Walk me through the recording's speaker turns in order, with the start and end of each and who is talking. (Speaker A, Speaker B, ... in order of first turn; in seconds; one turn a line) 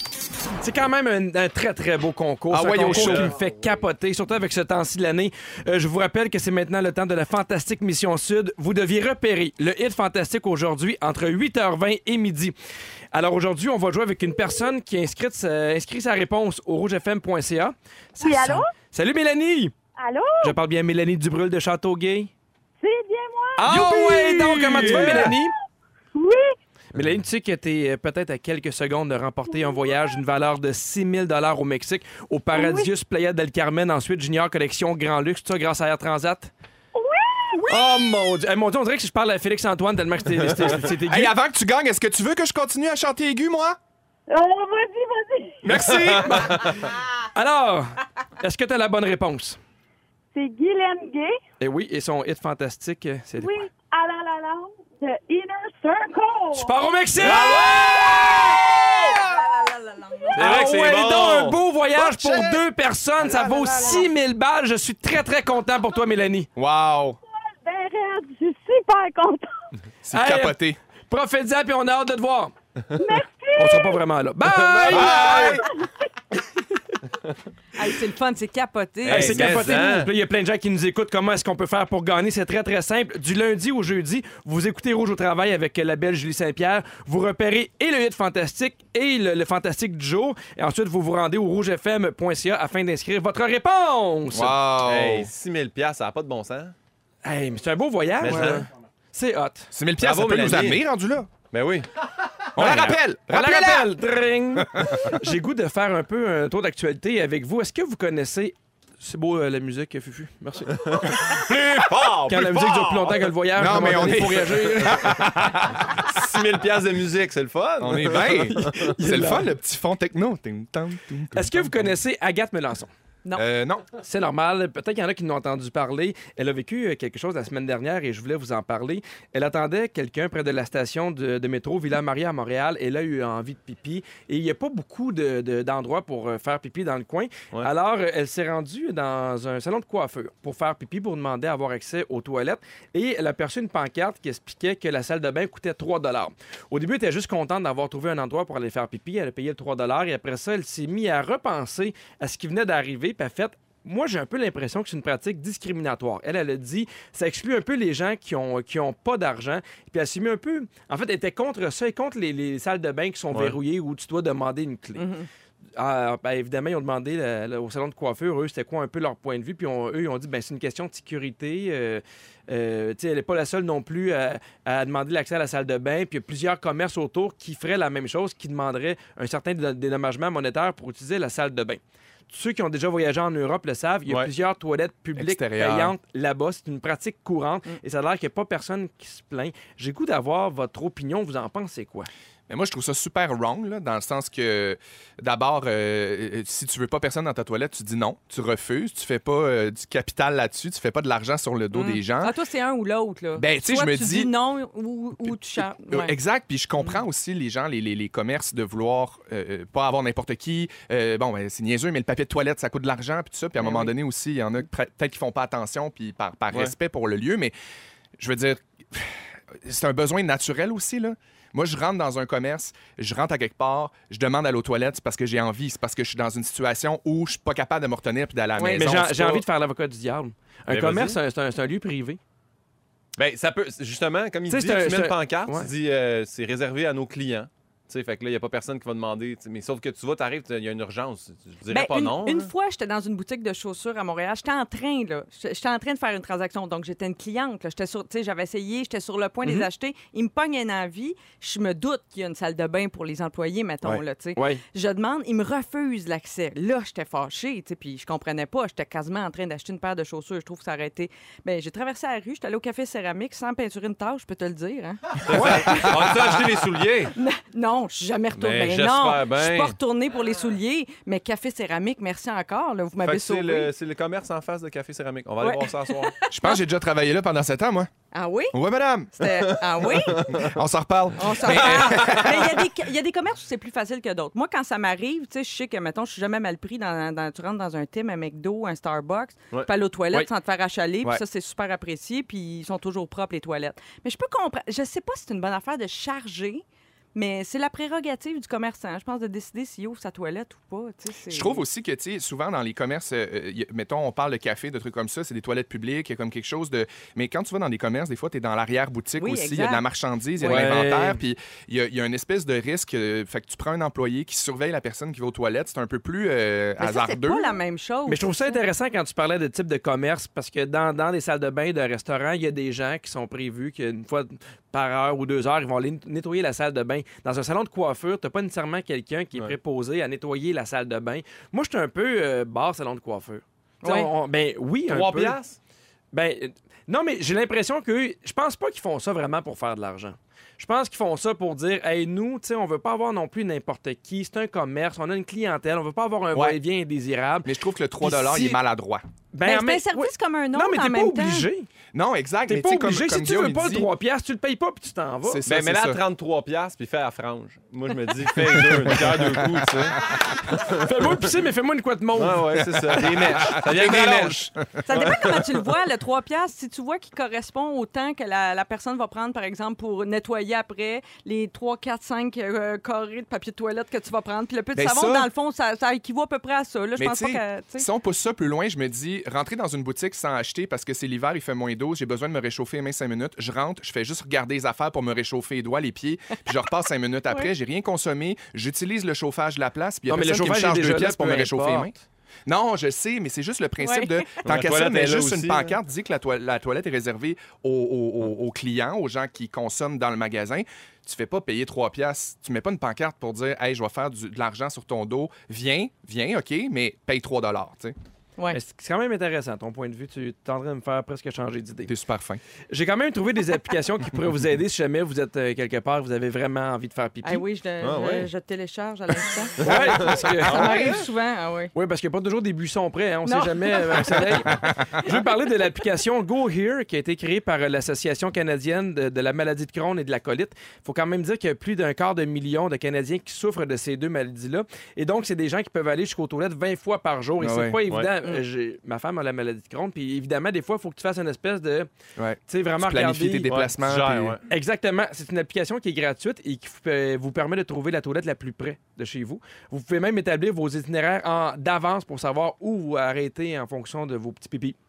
Speaker A: 0.6-12.5
Speaker B: 2.5-3.3
Speaker C: 2.9-3.5
Speaker A: 13.1-19.7
Speaker D: 18.2-18.7
Speaker D: 20.0-20.6
Speaker A: 20.4-22.3
Speaker D: 22.8-25.5
Speaker A: 23.6-25.5
Speaker D: 26.1-26.6
Speaker A: 26.9-36.5
Speaker D: 29.5-30.2
Speaker D: 32.5-32.9
Speaker D: 37.0-37.9
Speaker A: 37.6-41.3
Speaker B: 40.9-43.8
Speaker D: 44.3-45.7
Speaker B: 45.6-46.7
Speaker C: 45.7-46.9
Speaker A: 47.3-49.6
Speaker D: 50.3-51.4
Speaker A: 51.6-53.7
Speaker D: 53.4-56.8
Speaker A: 56.5-57.6
Speaker C: 57.2-58.9
Speaker D: 57.7-60.4
Speaker A: 60.3-66.5
Speaker C: 60.4-62.5
Speaker D: 63.3-64.1
Speaker B: 66.6-67.2
Speaker D: 67.4-69.5
Speaker B: 70.0-70.8
Speaker A: 70.1-72.5
Speaker D: 73.0-74.0
Speaker A: 73.6-75.5
Speaker C: 74.5-75.5
Speaker D: 74.9-75.9
Speaker B: 74.9-75.7
Speaker E: 77.8-79.5
Speaker C: 79.0-80.1
Speaker A: 79.1-94.6
Speaker B: 94.3-95.3
Speaker C: 94.8-96.8
Speaker A: 97.2-99.7
Speaker C: 98.2-98.7
Speaker B: 99.7-101.3
Speaker C: 100.0-100.8
Speaker C: 101.5-101.9
Speaker B: 102.5-103.9
Speaker A: 102.6-111.3
Speaker B: 104.5-105.1
Speaker C: 110.7-113.3
Speaker A: 112.3-115.3
Speaker B: 113.6-116.0
Speaker C: 116.0-118.9
Speaker B: 117.8-121.9
Speaker A: 118.9-119.5
Speaker A: 121.3-122.9
Speaker B: 123.3-123.9
Speaker A: 124.0-165.1
Speaker C: 163.3-163.6
Speaker E: 165.0-165.3
Speaker A: 165.8-192.1
Speaker B: 185.2-185.9
Speaker B: 192.5-202.3
Speaker E: 201.7-206.2
Speaker B: 203.4-204.3
Speaker B: 205.2-217.5
Speaker E: 213.6-213.9
Speaker B: 218.2-229.4
Speaker E: 228.6-228.9
Speaker A: 228.7-232.2
Speaker C: 230.7-231.2
Speaker C: 233.2-242.5
Speaker A: 234.5-235.7
Speaker E: 241.7-266.2
Speaker A: 253.9-254.6
Speaker C: 265.3-267.1
Speaker A: 265.3-265.8
Speaker E: 267.1-273.7
Speaker C: 268.3-269.8
Speaker C: 273.0-276.1
Speaker E: 275.4-276.6
Speaker B: 276.3-277.9
Speaker E: 278.1-278.6
Speaker B: 278.5-279.3
Speaker E: 279.2-280.4
Speaker C: 279.4-280.6
Speaker B: 280.3-282.5
Speaker E: 281.2-301.6
Speaker C: 281.4-282.6
Speaker B: 301.3-317.5
Speaker E: 309.2-309.8
Speaker A: 310.4-311.2
Speaker E: 316.8-318.6
Speaker A: 318.1-335.4
Speaker E: 333.8-334.1
Speaker C: 334.9-335.6
Speaker A: 336.1-347.5
Speaker B: 347.4-349.0
Speaker A: 348.0-348.6
Speaker A: 349.3-351.7
Speaker E: 349.4-351.5
Speaker B: 351.9-353.9
Speaker A: 352.5-355.4
Speaker B: 355.2-356.0
Speaker C: 355.4-360.8
Speaker B: 358.6-359.8
Speaker A: 360.6-363.0
Speaker C: 362.1-365.7
Speaker B: 362.6-364.9
Speaker E: 364.9-377.9
Speaker B: 374.8-375.3
Speaker B: 377.0-391.9
Speaker A: 390.1-391.9
Speaker B: 392.5-407.9
Speaker E: 393.8-394.4
Speaker C: 394.4-395.8
Speaker A: 408.5-411.9
Speaker B: 411.9-412.4
Speaker A: 412.7-417.4
Speaker E: 417.2-421.7
Speaker C: 417.8-418.3
Speaker A: 419.6-420.7
Speaker C: 419.6-421.0
Speaker B: 420.5-421.0
Speaker A: 421.7-441.9
Speaker E: 423.2-424.5
Speaker B: 437.4-437.8
Speaker B: 442.2-444.4
Speaker A: 442.5-443.5
Speaker C: 443.5-444.4
Speaker A: 444.5-454.8